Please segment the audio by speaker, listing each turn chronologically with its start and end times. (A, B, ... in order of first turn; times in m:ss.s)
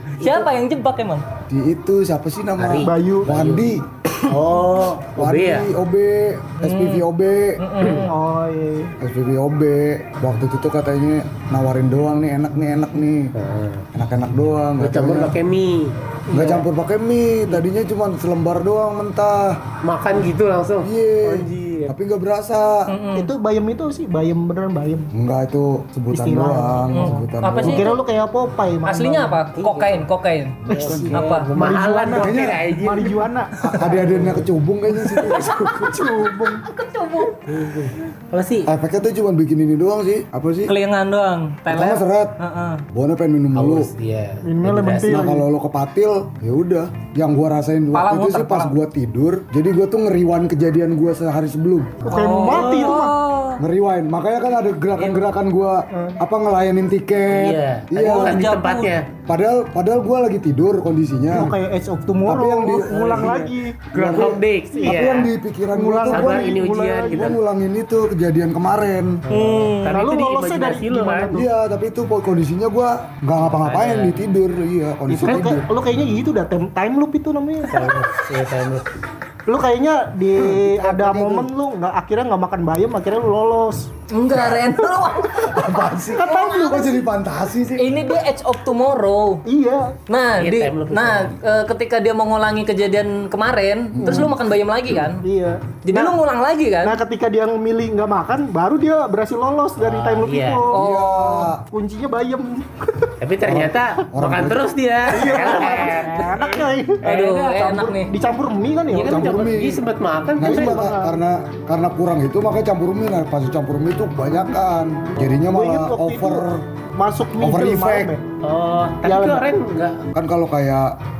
0:00.2-0:00.5 A
0:00.2-0:01.2 B
0:01.5-0:07.6 C
0:02.6-0:03.7 A
0:02.8-0:03.3 D
0:04.2-0:05.7 A
0:06.6-0:07.0 B
0:07.6-0:08.2 B
0:08.0-0:08.9 D
0:09.0-0:13.3 C
0:13.3-0:13.9 A
0:13.9-0:15.4 C
0:14.8-0:16.4 A
0:16.3-0:19.6 C
0:16.3-0:16.6 D
0:19.8-0:21.9 A
0:20.8-0:22.9 C
0:22.9-0:23.3 B
0:23.1-0:25.1 D
0:25.1-0:27.9 C
0:26.1-0:29.4 D
0:26.9-0:28.0 B
0:28.8-0:31.5 B
0:29.5-0:30.0 A
0:30.7-0:33.2 A
0:30.7-0:34.3 D
0:30.7-0:31.3 C
0:32.1-0:32.6 C
0:33.6-0:36.3 C
0:34.1-0:34.4 A
0:35.2-0:36.6 D
0:36.7-0:37.3 B
0:37.5-0:38.7 A
0:38.6-0:40.7 C
0:40.7-0:42.8 B
0:41.7-0:42.4 C
0:42.9-0:43.9 C
0:43.5-0:45.3 A
0:44.4-0:45.4 D
0:45.0-0:52.1 C
0:47.9-0:48.7 B
0:52.0-0:53.2 D
0:52.0-0:53.6 B
0:52.1-0:53.0 A
0:53.6-0:58.4 C
0:55.0-0:55.3 A
0:55.9-0:56.2 D
0:57.3-0:59.1 A
0:58.0-0:58.9 B
0:59.3-1:01.6 C
1:01.3-1:03.8 D
1:02.2-1:09.2 C
1:03.9-1:05.3 A
1:05.7-1:07.3 D
1:06.1-1:07.4 A
1:09.3-1:11.4 A
1:09.3-1:10.0 B
1:09.4-1:11.4 D
1:11.3-1:15.6 C
1:13.4-1:14.2 A
1:15.1-1:18.0 D
1:15.2-1:15.5 A
1:17.7-1:18.9 A
1:19.4-1:23.9 D
1:20.4-1:21.5 C
1:24.1-1:26.8 B
1:24.3-1:24.6 C
1:25.2-1:28.0 C
1:26.1-1:26.9 D
1:27.8-1:29.4 B
1:29.4-1:30.0 D
1:30.1-1:35.2 B
1:30.4-1:31.4 A
1:33.9-1:34.4 C
1:34.0-1:34.3 D
1:35.2-1:36.2 D
1:35.8-1:37.0 B
1:36.8-1:40.8 D
1:39.8-1:40.6 A
1:40.7-1:41.5 B
1:40.7-1:41.6 C
1:41.7-1:43.1 D
1:43.2-1:47.9 A
1:43.4-1:44.7 C
1:45.1-1:47.0 D
1:47.0-1:48.1 B
1:47.9-1:49.4 D
1:48.9-1:50.9 A
1:49.0-1:49.8 C
1:50.4-1:56.6 C
1:50.4-1:51.2 D
1:55.5-1:56.4 D
1:57.0-1:58.2 D
1:57.4-1:58.1 C
1:58.4-2:00.0 A
1:59.0-1:59.5 D
2:00.1-2:00.9 C